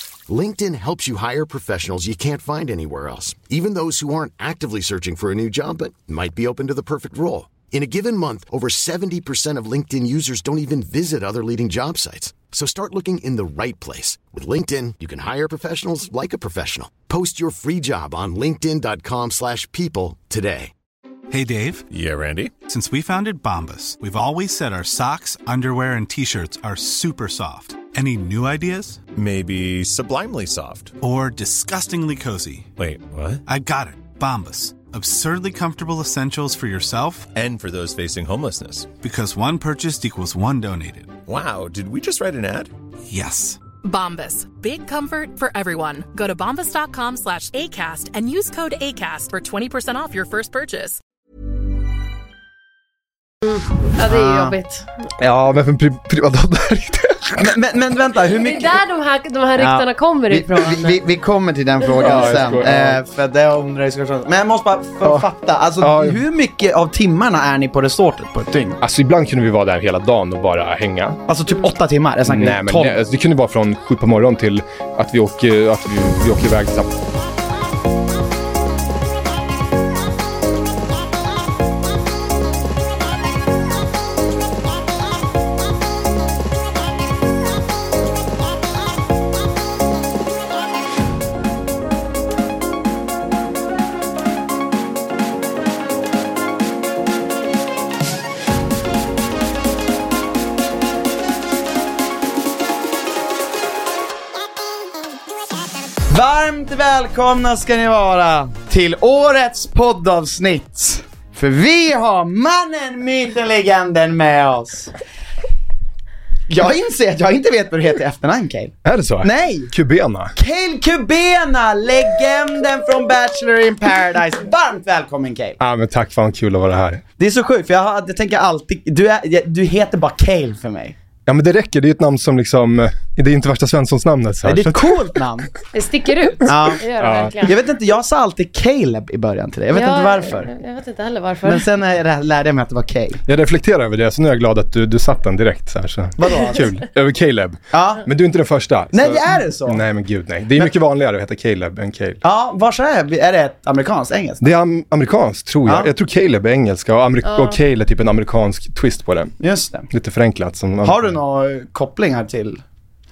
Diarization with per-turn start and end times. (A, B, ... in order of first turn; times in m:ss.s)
0:00.3-0:20.7 A
0:21.3-0:21.8 B
0:21.9-0:22.5 C
0:22.7-0:29.0 B
0:29.1-0:30.9 C
0:31.0-0:32.7 B
0:32.8-0:33.4 C
0:33.4-0:37.3 B
0:37.3-0:38.9 C
0:39.0-0:41.2 B
0:41.2-0:42.7 C
0:43.0-0:43.6 B
0:43.8-0:51.0 D
0:53.5-0:54.9 E
0:54.1-0:54.5 F
0:55.2-0:57.5 G
0:57.4-0:58.8 F
0:58.4-1:01.0 E
0:59.6-1:08.8 F
1:02.0-1:03.0 G
1:05.8-1:06.2 G
1:08.8-1:11.2 G
1:11.3-1:13.0 F
1:12.2-1:17.0 G
1:46.1-1:55.0 F
1:56.5-1:59.7 F
1:58.8-2:00.3 G
2:00.4-2:05.6 F
2:05.6-2:07.0 G
2:07.2-2:10.9 F
2:11.3-2:15.0 G
2:14.4-2:15.5 F
2:15.7-2:17.5 E
2:16.4-2:17.4 G
2:16.5-2:16.8 F
2:17.4-2:20.5 F
2:19.7-2:21.6 E
2:21.4-2:23.2 F
2:23.3-2:32.2 G
2:26.2-2:26.7 F
2:27.7-2:28.0 F
2:28.9-2:29.8 F
2:32.2-2:34.4 F
2:34.4-2:39.3 G
2:37.2-2:37.6 E
2:39.4-2:39.9 F
2:39.9-2:41.2 G
2:40.8-2:42.6 F